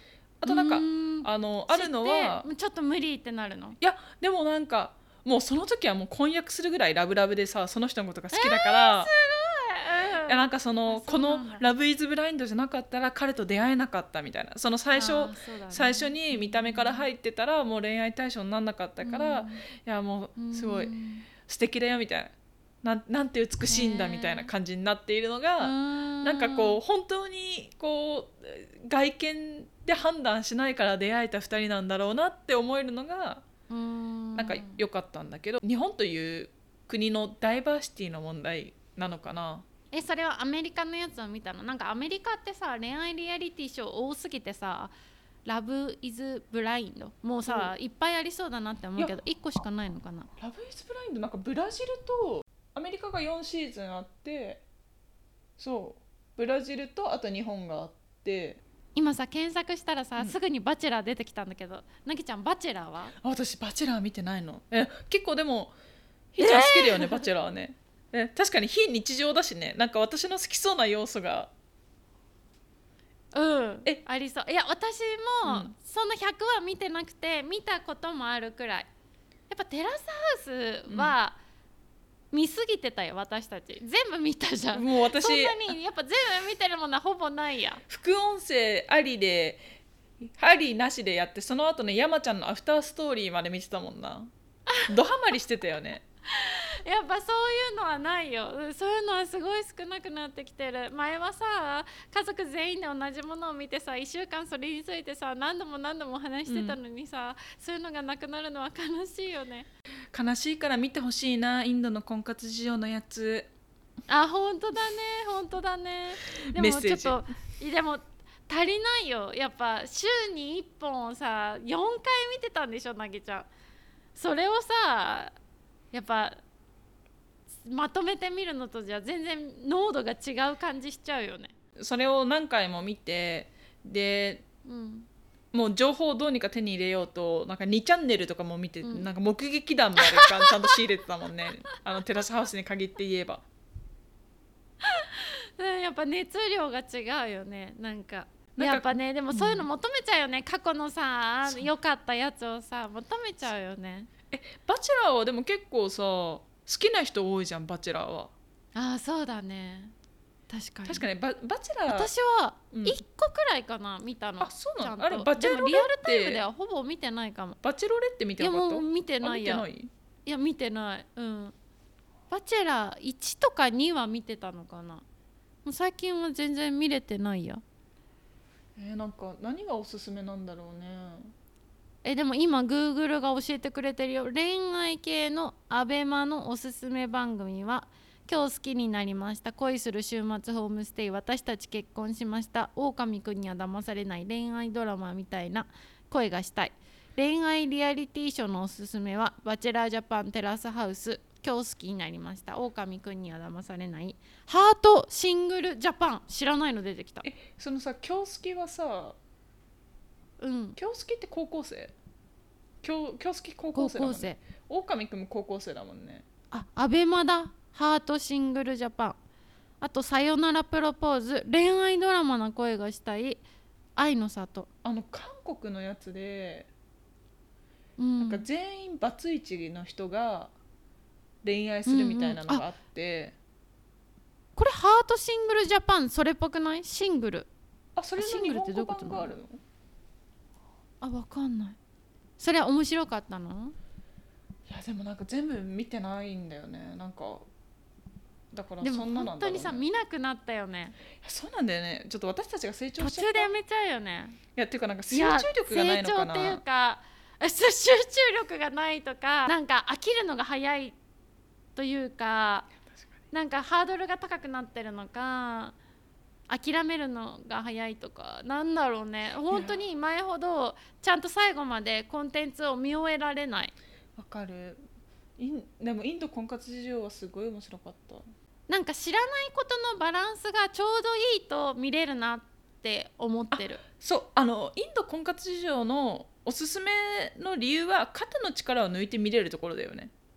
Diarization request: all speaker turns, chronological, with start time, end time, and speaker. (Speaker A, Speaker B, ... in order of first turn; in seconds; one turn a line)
Speaker A: 0.4-2.5
Speaker B: 0.5-3.8
Speaker A: 3.8-9.1
Speaker B: 8.3-11.6
Speaker A: 10.2-20.9
Speaker B: 14.9-17.1
Speaker B: 19.0-19.6
Speaker B: 20.4-21.3
Speaker A: 21.4-33.5
Speaker B: 23.7-24.5
Speaker B: 25.6-26.8
Speaker B: 33.7-34.8
Speaker A: 34.4-39.6
Speaker B: 39.9-44.9
Speaker B: 45.4-50.3
Speaker A: 47.4-47.7
Speaker A: 50.4-54.6
Speaker A: 55.6-58.6
Speaker B: 58.9-63.1
Speaker A: 63.2-65.7
Speaker A: 66.3-71.5
Speaker B: 66.4-67.3
Speaker B: 73.3-78.9
Speaker A: 75.4-75.7
Speaker B: 79.5-81.4
Speaker A: 80.9-81.2
Speaker B: 82.3-87.8
Speaker A: 84.7-85.8
Speaker A: 87.9-89.6
Speaker A: 90.2-94.3
Speaker A: 94.9-96.0
Speaker B: 96.3-109.7
Speaker A: 106.5-106.8
Speaker A: 110.1-113.5
Speaker B: 114.1-123.5
Speaker A: 116.5-117.2
Speaker B: 124.1-125.3
Speaker B: 125.9-126.4
Speaker B: 127.6-131.5
Speaker A: 131.8-134.4
Speaker B: 134.6-135.1
Speaker A: 135.5-143.4
Speaker B: 138.8-139.1
Speaker B: 140.0-140.6
Speaker B: 144.8-154.1
Speaker A: 148.6-149.7
Speaker A: 151.4-151.7
Speaker A: 154.3-158.3
Speaker B: 158.7-159.9
Speaker B: 160.5-161.1
Speaker A: 160.8-162.1
Speaker B: 161.9-167.6
Speaker A: 162.7-163.0
Speaker A: 164.4-166.4
Speaker A: 167.6-169.9
Speaker B: 168.4-169.7
Speaker B: 170.2-171.5
Speaker B: 172.3-175.0
Speaker B: 175.6-177.6
Speaker A: 178.8-181.3
Speaker B: 182.0-207.2
Speaker A: 207.2-209.2
Speaker B: 210.4-210.8
Speaker A: 210.8-211.9
Speaker A: 212.8-216.2
Speaker B: 213.7-214.4
Speaker B: 216.5-219.2
Speaker B: 219.8-223.4
Speaker B: 223.9-224.7
Speaker A: 224.8-226.7
Speaker B: 228.0-228.4
Speaker A: 228.2-230.5
Speaker A: 231.4-233.3
Speaker B: 231.8-232.6
Speaker B: 234.6-237.5
Speaker A: 237.9-239.6
Speaker B: 238.2-239.3
Speaker B: 241.0-241.8
Speaker B: 242.4-243.7
Speaker A: 244.7-247.5
Speaker A: 248.5-249.8
Speaker B: 248.8-251.0
Speaker A: 251.2-253.5
Speaker B: 253.0-254.4
Speaker A: 254.6-256.6
Speaker B: 255.1-260.9
Speaker B: 261.8-262.7
Speaker B: 263.3-265.8
Speaker B: 266.5-273.7
Speaker A: 269.5-269.8
Speaker A: 274.1-274.8
Speaker A: 275.4-278.3
Speaker B: 278.7-283.8
Speaker A: 283.5-290.1